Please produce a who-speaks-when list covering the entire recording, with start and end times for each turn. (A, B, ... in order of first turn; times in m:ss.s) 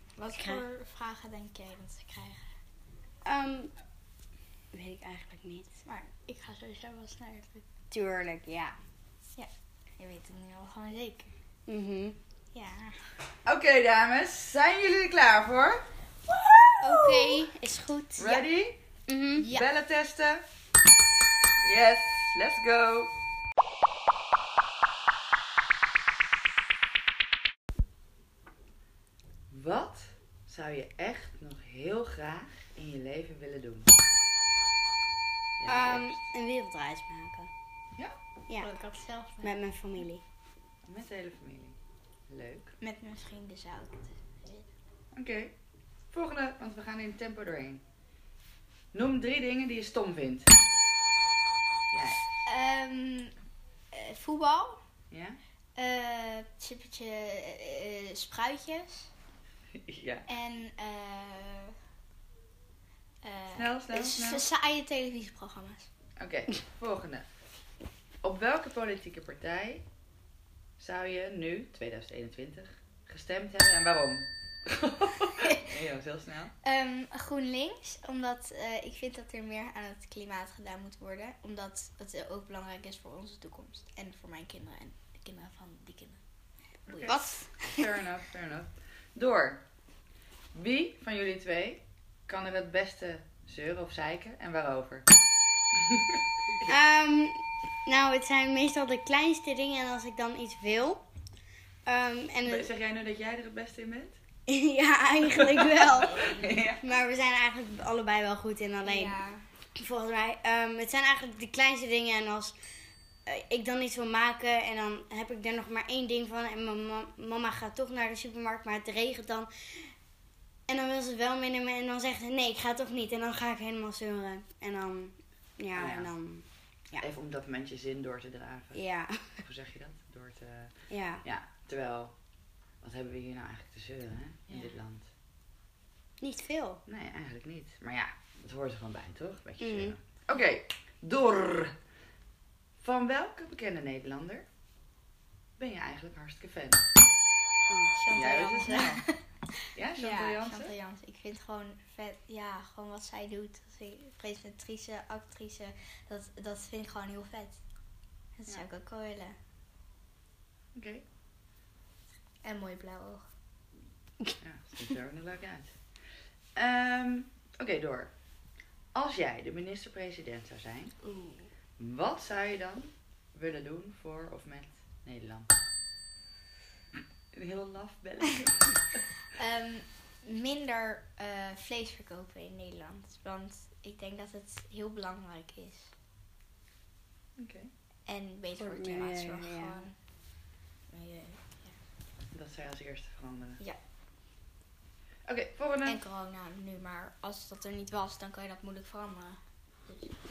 0:00.2-0:02.5 A
0:00.4-0:00.6 B
0:03.2-0:03.7 B
0:04.7-0:05.7 B
0:05.8-0:07.7 A
0:07.9-0:08.8 B
0:09.3-0:11.3 A
0:11.7-0:12.2 B
0:12.5-0:13.0 A
0:13.4-0:15.8 C
0:16.7-0:17.4 A
0:16.8-0:18.4 B
0:18.2-0:18.8 C
0:19.1-0:19.5 B
0:19.4-0:19.7 A
0:19.5-0:20.4 C
0:21.6-0:23.1 C
0:29.5-0:33.9 C
0:35.6-0:36.2 C
0:35.7-0:37.5 B
0:38.5-0:39.6 A
0:39.4-0:40.2 B
0:40.8-0:41.8 C
0:42.3-0:42.7 C
0:42.8-0:44.7 A
0:45.1-0:45.5 C
0:46.1-0:47.8 C
0:48.9-0:50.5 C
0:51.9-0:52.2 C
0:52.4-0:53.3 A
0:53.9-0:54.8 A
0:55.1-0:55.4 C
0:55.8-0:59.1 A
0:59.8-1:00.2 C
1:00.3-1:01.7 A
1:03.2-1:05.9 A
1:03.5-1:04.4 C
1:06.2-1:07.2 C
1:08.2-1:09.8 C
1:10.8-1:16.5 C
1:16.6-1:26.2 A
1:26.9-1:27.4 A
1:26.9-1:29.6 C
1:27.1-1:27.5 B
1:30.5-1:35.1 C
1:36.7-1:41.0 B
1:41.8-1:42.7 B
1:42.4-1:44.2 C
1:44.5-1:49.2 B
1:45.4-1:46.8 C
1:46.1-1:46.4 A
1:48.8-1:49.4 A
1:49.8-1:52.6 B
1:53.2-1:59.9 B
2:00.7-2:06.4 B
2:05.7-2:06.1 C
2:07.0-2:08.8 C
2:08.7-2:09.4 B
2:09.4-2:10.7 C
2:10.9-2:11.2 B
2:11.2-2:12.1 C
2:12.8-2:15.1 C
2:16.2-2:16.8 B
2:16.9-2:21.7 C
2:19.6-2:19.9 B
2:22.8-2:24.4 C
2:25.6-2:26.8 C
2:27.7-2:27.9 B
2:28.0-2:37.6 A
2:28.1-2:29.0 C
2:29.7-2:30.7 C
2:38.4-2:39.4 A
2:40.7-2:41.0 C
2:42.4-2:43.2 A
2:44.4-2:45.7 C
2:46.6-2:48.1 C
2:48.9-2:51.0 C
2:51.8-2:55.5 C
2:57.3-2:59.1 C
2:59.3-3:05.9 A
3:07.4-3:07.7 C
3:08.0-3:09.9 A
3:08.6-3:09.8 B
3:10.9-3:11.8 A
3:12.3-3:13.6 C
3:15.2-3:16.0 C
3:15.8-3:20.1 A